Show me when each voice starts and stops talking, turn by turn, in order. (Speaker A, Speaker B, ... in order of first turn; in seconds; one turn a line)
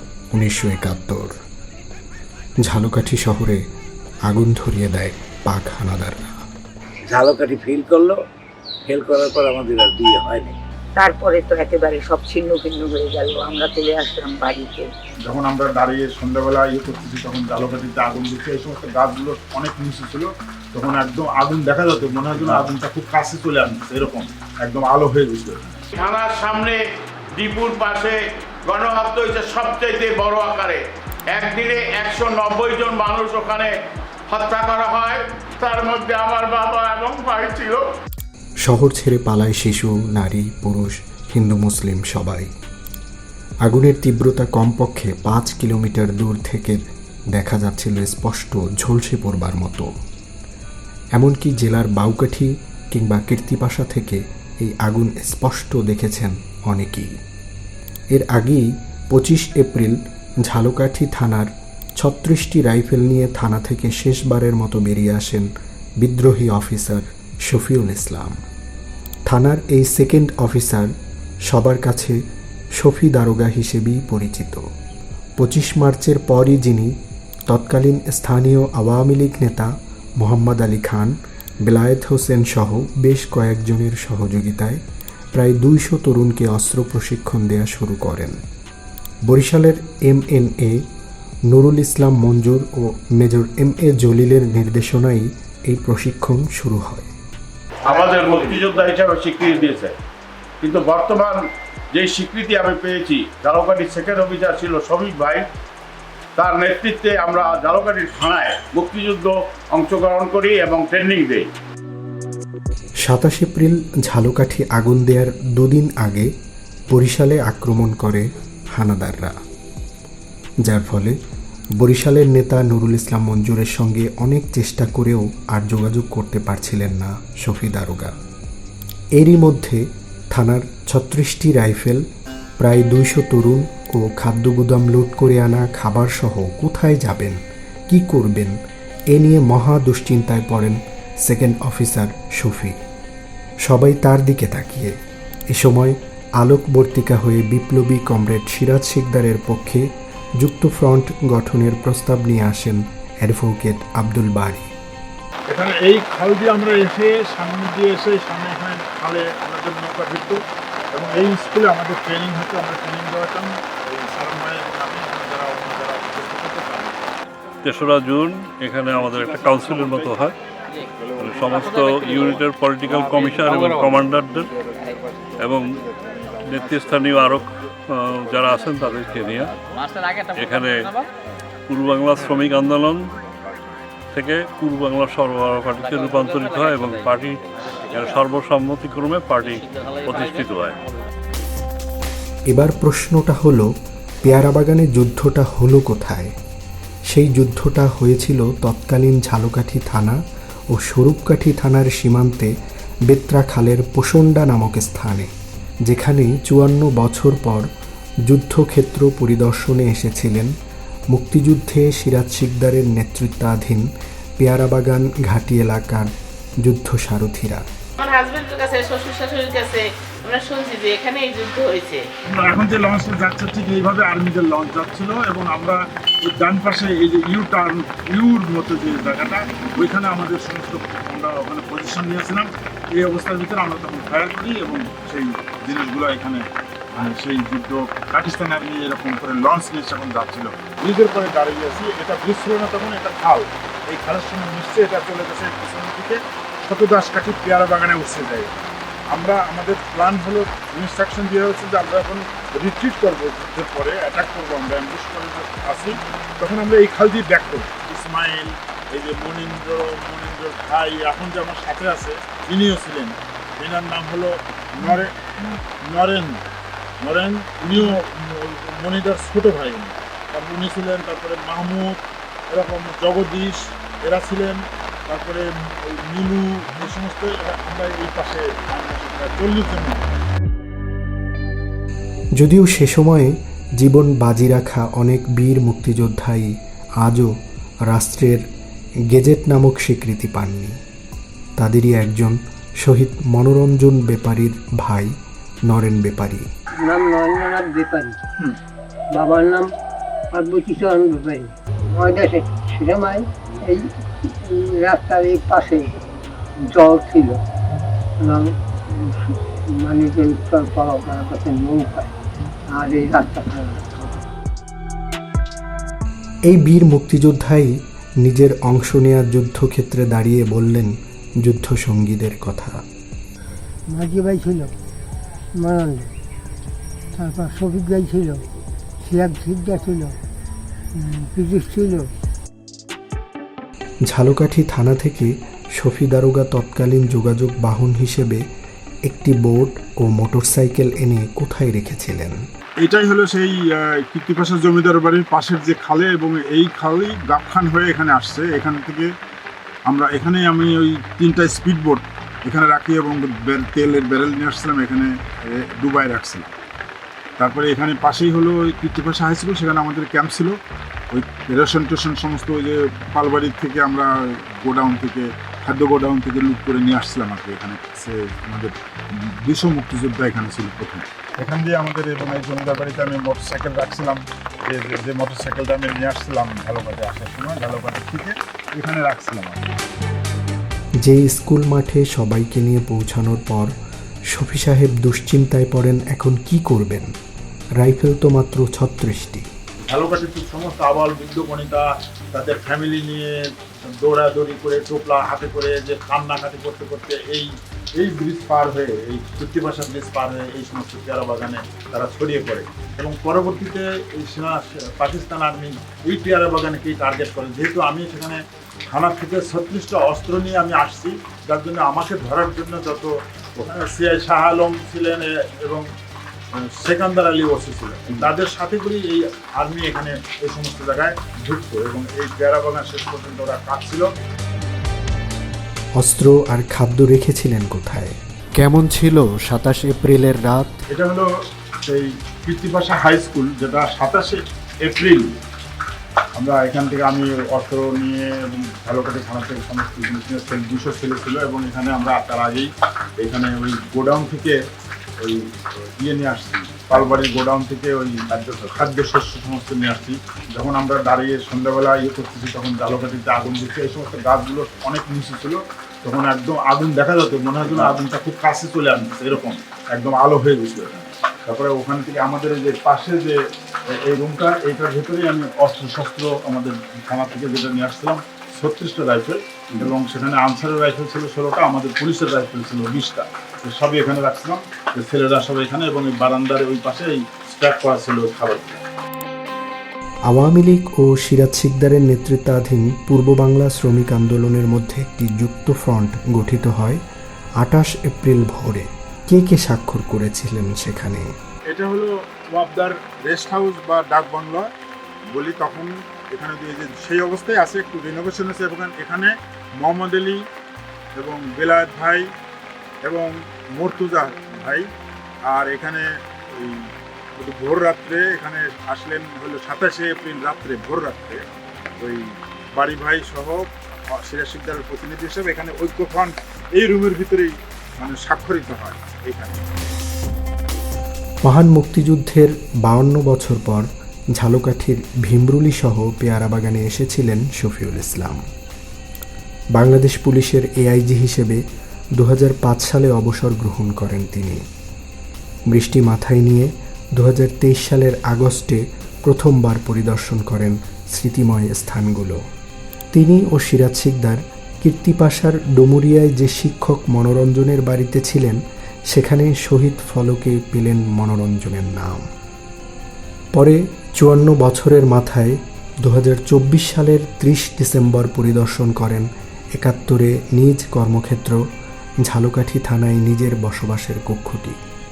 Speaker A: 0.3-1.3
Speaker A: 2.6-3.6
Speaker A: 4.3-6.5
Speaker B: 7.0-8.2
Speaker B: 8.9-10.6
Speaker C: 10.9-14.9
Speaker D: 15.2-25.8
Speaker E: 25.9-26.8
Speaker E: 27.4-33.7
Speaker E: 34.3-37.8
Speaker A: 38.6-42.5
Speaker A: 43.6-46.8
Speaker A: 47.3-49.9
Speaker A: 51.1-57.1
Speaker A: 58.1-65.5
Speaker A: 66.0-68.3
Speaker A: 69.3-70.9
Speaker A: 71.5-72.2
Speaker A: 72.8-74.6
Speaker A: 75.4-76.9
Speaker A: 77.5-84.8
Speaker A: 85.3-88.4
Speaker A: 89.2-90.8
Speaker A: 91.5-97.1
Speaker E: 97.8-99.9
Speaker E: 100.6-101.4
Speaker E: 101.9-105.4
Speaker E: 106.4-111.5
Speaker A: 113.0-116.3
Speaker A: 116.9-119.3
Speaker A: 120.6-121.1
Speaker A: 121.8-128.1
Speaker A: 129.2-132.0
Speaker A: 132.6-138.5
Speaker A: 139.1-142.8
Speaker A: 143.6-144.9
Speaker A: 145.5-149.8
Speaker A: 150.4-154.7
Speaker D: 155.5-160.4
Speaker D: 160.9-167.1
Speaker F: 167.6-170.3
Speaker F: 171.2-174.5
Speaker F: 175.4-179.5
Speaker F: 180.3-180.9
Speaker F: 181.7-183.1
Speaker F: 184.1-190.8
Speaker A: 192.5-193.7
Speaker A: 194.2-196.3
Speaker A: 197.1-200.2
Speaker A: 200.7-202.5
Speaker A: 203.1-205.3
Speaker A: 205.8-207.7
Speaker A: 208.3-210.5
Speaker A: 211.1-213.8
Speaker A: 214.4-216.1
Speaker A: 216.6-217.6
Speaker G: 218.0-222.1
Speaker D: 222.3-248.5
Speaker D: 249.1-265.2
Speaker D: 265.8-266.4
Speaker D: 267.0-280.2
Speaker A: 282.4-287.3
Speaker A: 287.9-288.4
Speaker A: 289.1-290.7
Speaker A: 291.6-295.1
Speaker A: 295.6-296.4
Speaker H: 296.8-298.2
Speaker H: 299.1-299.7
Speaker H: 300.3-305.9
Speaker H: 306.6-307.4
Speaker H: 308.2-312.1
Speaker H: 312.7-314.2
Speaker A: 316.5-322.8
Speaker H: 323.9-324.7
Speaker H: 325.6-326.1
Speaker H: 327.1-328.5
Speaker H: 329.0-330.1
Speaker H: 330.9-332.1
Speaker A: 334.1-338.4
Speaker A: 339.1-342.4
Speaker D: 342.8-349.1
Speaker D: 349.9-356.5
Speaker D: 357.4-360.6
Speaker D: 361.1-379.7
Speaker A: 381.0-383.7
Speaker A: 384.3-387.1
Speaker A: 387.8-389.4
Speaker D: 389.8-415.9
Speaker D: 416.6-424.1
Speaker A: 426.0-430.8
Speaker D: 430.9-431.3
Speaker D: 431.8-435.3
Speaker D: 436.3-444.6
Speaker D: 445.2-478.8
Speaker A: 480.3-487.0
Speaker A: 487.6-491.2
Speaker D: 491.7-494.7
Speaker D: 495.3-500.4
Speaker D: 501.1-502.3
Speaker D: 503.0-504.9
Speaker D: 505.4-511.4
Speaker D: 512.0-519.7
Speaker A: 521.4-528.4
Speaker A: 529.7-531.6
Speaker A: 532.2-534.6
Speaker A: 535.7-542.4
Speaker A: 543.1-548.6
Speaker A: 549.1-552.2
Speaker A: 553.5-561.6
Speaker A: 562.2-564.8